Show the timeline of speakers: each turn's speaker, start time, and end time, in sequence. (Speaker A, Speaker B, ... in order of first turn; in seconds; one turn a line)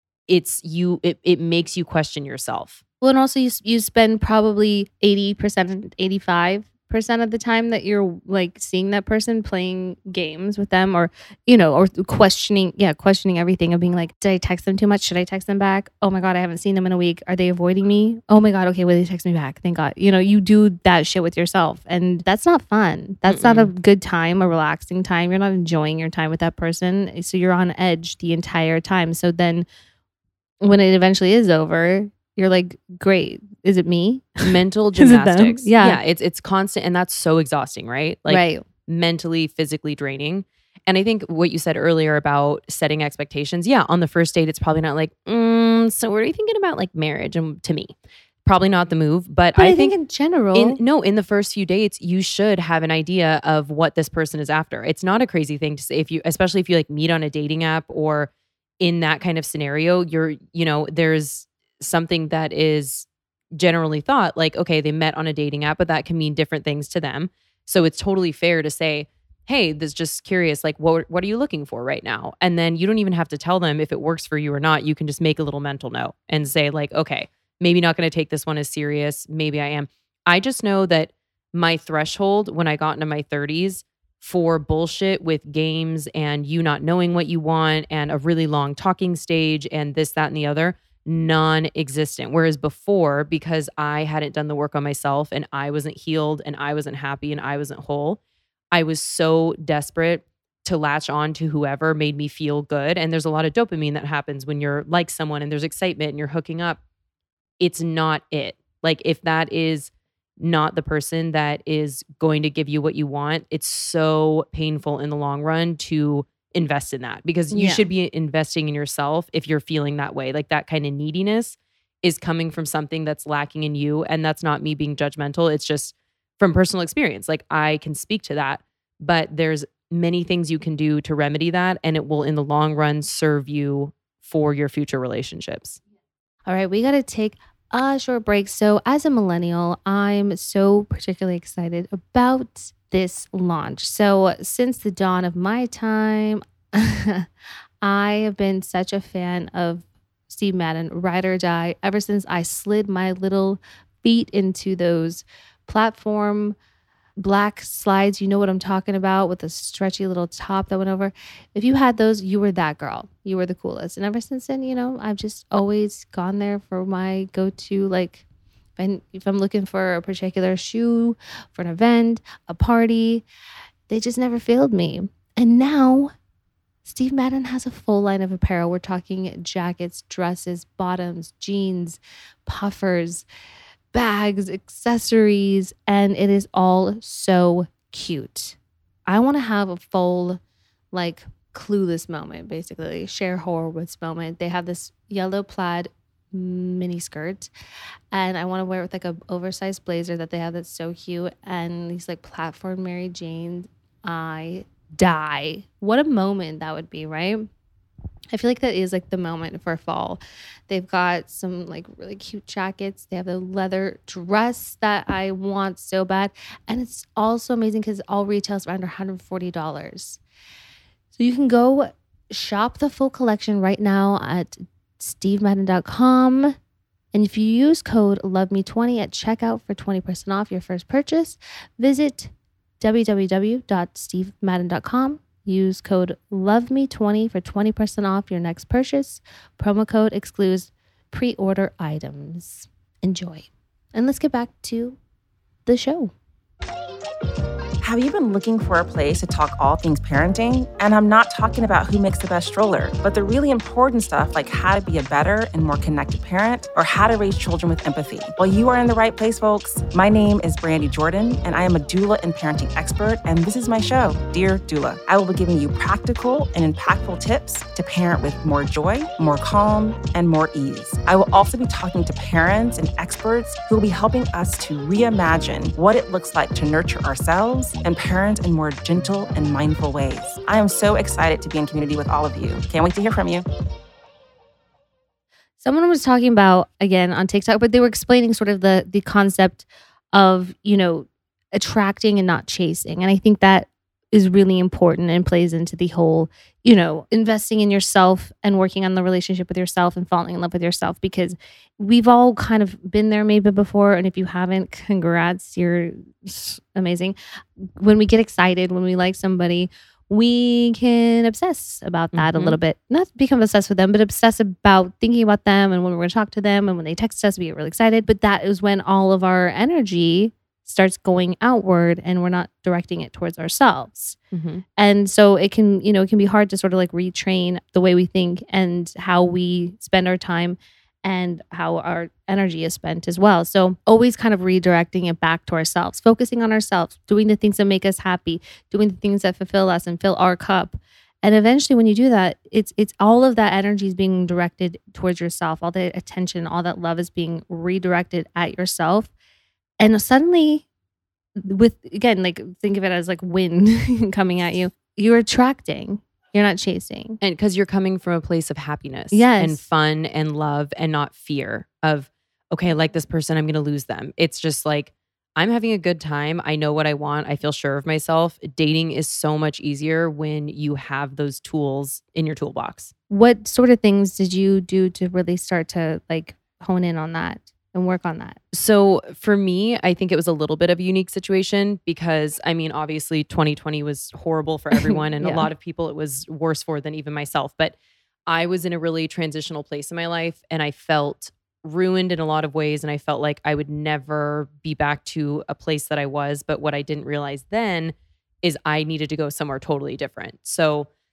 Speaker A: 0.3-2.8
Speaker B: 3.0-29.7
Speaker A: 23.3-23.7
Speaker B: 30.6-36.0
Speaker A: 34.4-47.9
Speaker B: 38.3-38.7
Speaker A: 48.5-49.9
Speaker B: 49.6-50.8
Speaker A: 50.5-58.3
Speaker A: 58.8-98.2
Speaker A: 98.7-106.8
Speaker A: 107.6-135.8
Speaker B: 117.5-117.9
Speaker B: 136.5-147.3
Speaker B: 147.8-156.6
Speaker B: 157.2-168.2
Speaker B: 168.8-173.2
Speaker B: 173.9-176.1
Speaker B: 176.8-183.2
Speaker B: 183.9-190.4
Speaker B: 190.9-197.5
Speaker B: 198.1-207.5
Speaker B: 208.3-220.2
Speaker B: 221.2-226.6
Speaker B: 227.1-245.0
Speaker B: 245.7-246.1
Speaker C: 247.8-283.4
Speaker B: 285.6-324.2
Speaker A: 312.1-312.6
Speaker A: 324.3-324.6
Speaker B: 324.8-349.1
Speaker B: 349.8-350.7
Speaker B: 351.4-357.2
Speaker A: 357.2-372.9
Speaker B: 359.1-359.6
Speaker B: 373.1-378.4
Speaker A: 378.5-387.8
Speaker B: 384.7-385.5
Speaker A: 388.3-400.9